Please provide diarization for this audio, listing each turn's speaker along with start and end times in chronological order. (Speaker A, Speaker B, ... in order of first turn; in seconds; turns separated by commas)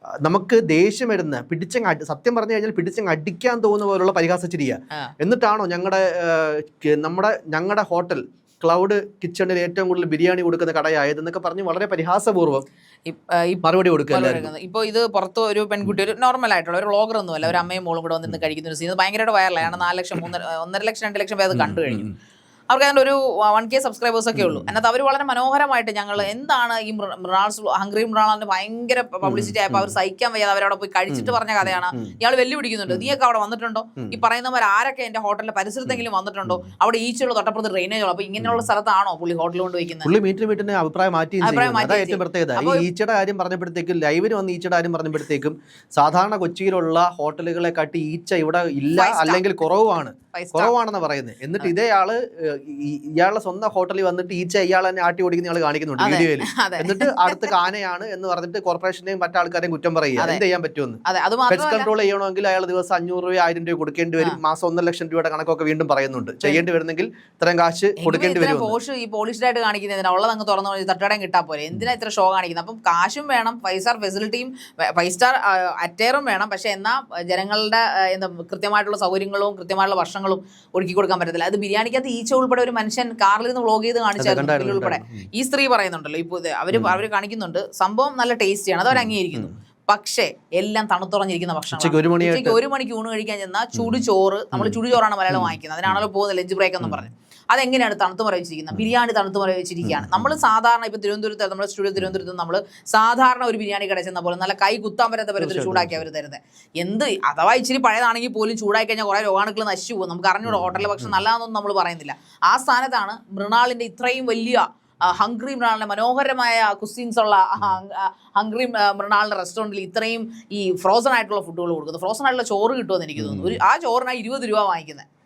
Speaker A: 0.2-12.7, Speaker B: 13.1-22.1, Speaker A: 13.6-14.5, Speaker A: 21.5-22.1, Speaker B: 22.7-40.1, Speaker A: 29.2-29.9, Speaker A: 35.9-36.6, Speaker A: 40.0-68.7, Speaker B: 41.4-42.9, Speaker B: 48.9-49.6, Speaker B: 50.3-50.7, Speaker B: 56.0-57.7, Speaker B: 60.2-60.4, Speaker B: 61.0-61.9, Speaker B: 68.0-125.0, Speaker A: 84.2-85.2, Speaker A: 86.7-87.0, Speaker A: 91.7-92.6, Speaker A: 94.5-94.8, Speaker A: 99.9-100.3, Speaker A: 105.4-106.0, Speaker A: 110.5-111.1, Speaker A: 123.2-123.6